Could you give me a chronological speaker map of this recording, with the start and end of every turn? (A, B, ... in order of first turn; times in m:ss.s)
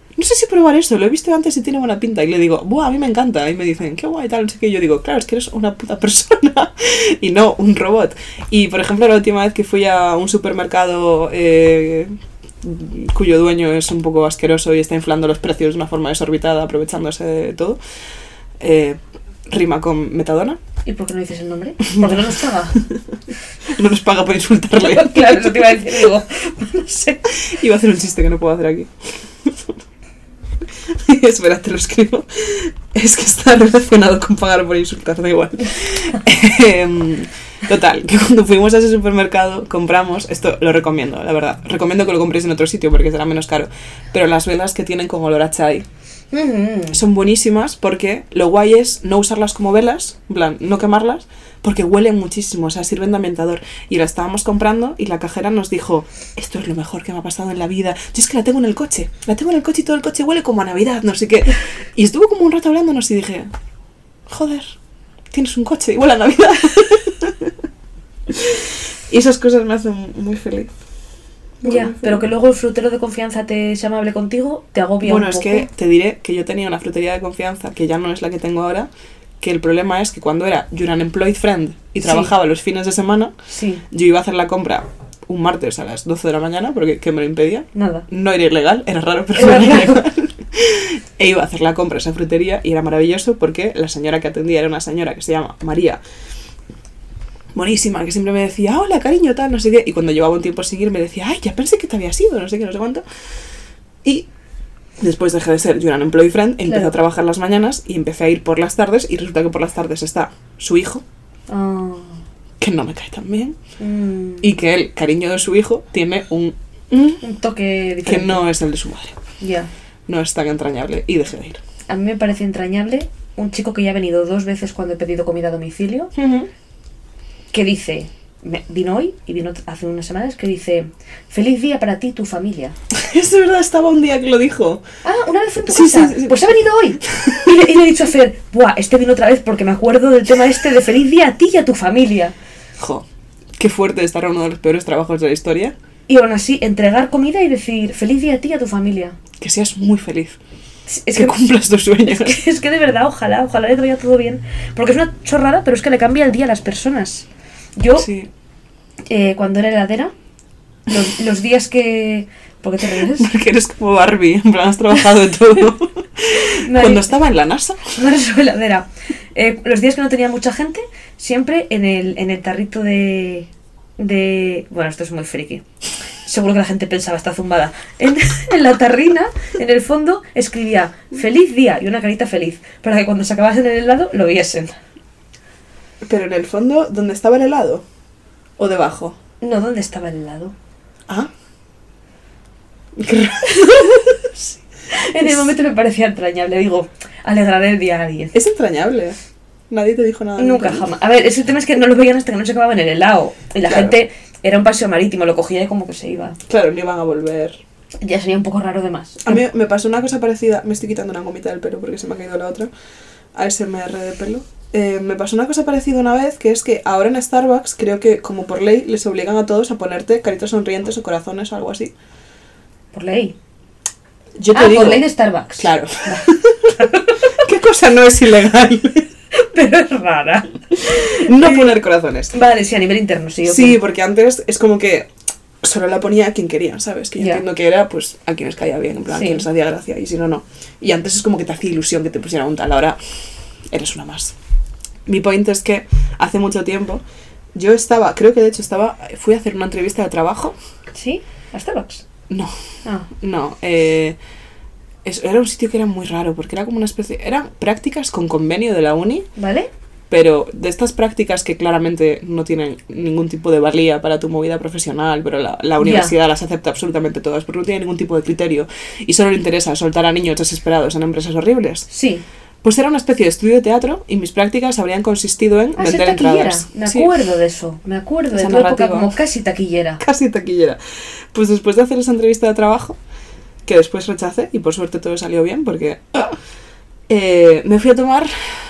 0:00.2-0:17.8 A
0:18.6-0:20.6 A
0:20.8-0:22.8 B
0:23.6-0:26.0 A
0:24.8-0:27.4 B
0:27.4-0:29.7 A
0:30.8-0:45.8 A
0:46.3-0:47.0 B
0:46.9-1:03.5 A
1:04.3-1:04.8 A
1:05.3-1:07.5 A
1:08.3-1:10.7 A
1:11.6-1:12.2 A
1:11.6-1:15.7 B
1:15.0-1:18.9 A
1:19.4-1:23.3 A
1:22.0-1:22.3 B
1:23.5-1:23.8 B
1:23.9-1:36.0 A
1:27.7-1:28.0 B
1:29.3-1:30.0 B
1:37.5-1:43.0 A
1:45.0-1:51.0 A
1:46.6-1:46.9 B
1:51.5-1:52.2 B
1:52.6-1:53.6 A
1:53.8-1:54.6 B
1:54.4-1:57.2 A
1:57.2-1:58.4 B
1:58.0-1:59.2 A
1:59.4-1:59.7 B
2:00.1-2:01.6 A
2:01.9-2:06.1 B
2:06.1-2:06.5 A
2:07.5-2:12.8 B
2:12.9-2:14.8 A
2:15.0-2:22.3 B
2:15.7-2:16.5 A
2:17.1-2:17.6 A
2:22.8-2:23.0 A
2:23.6-2:25.7 A
2:26.1-2:29.2 B
2:29.4-2:30.4 A
2:30.9-2:31.4 B
2:31.1-2:32.4 A
2:32.0-2:38.1 B
2:38.0-2:38.3 A
2:39.0-2:40.1 B
2:40.9-2:43.3 B
2:42.8-2:48.0 A
2:46.6-2:47.1 B
2:47.9-2:55.6 B
2:56.2-3:04.8 B
3:06.0-3:07.8 A
3:08.6-3:09.2 A
3:09.4-3:10.5 B
3:13.0-3:14.4 A
3:14.9-3:18.4 B
3:15.2-3:15.5 A
3:18.3-3:19.2 A
3:19.7-3:20.8 A
3:20.4-3:26.4 B
3:23.6-3:24.0 A
3:26.5-3:27.6 A
3:28.0-3:29.4 B
3:29.2-3:32.7 A
3:33.3-3:41.9 A
3:42.9-3:43.4 B
3:44.4-3:45.1 A
3:44.5-3:47.3 B
3:45.6-3:46.7 A
3:47.4-3:49.1 A
3:49.3-3:51.7 B
3:50.8-3:52.3 A
3:52.3-3:53.8 B
3:53.4-3:55.1 A
3:55.6-4:03.0 A
3:57.2-3:57.4 B
3:59.1-3:59.4 B
4:03.7-4:04.3 A
4:05.0-4:07.0 A
4:07.5-4:10.6 A
4:10.9-4:12.0 B
4:12.8-4:13.1 B
4:13.2-4:14.2 A
4:15.0-4:19.3 A
4:19.4-4:19.7 B
4:20.1-4:31.9 A
4:25.8-4:26.1 B
4:31.9-4:32.2 B
4:32.6-4:37.1 A
4:35.8-4:40.0 B
4:38.3-4:39.1 A
4:40.0-4:40.8 A
4:41.3-4:43.0 A
4:43.6-4:46.4 A
4:47.1-4:48.3 A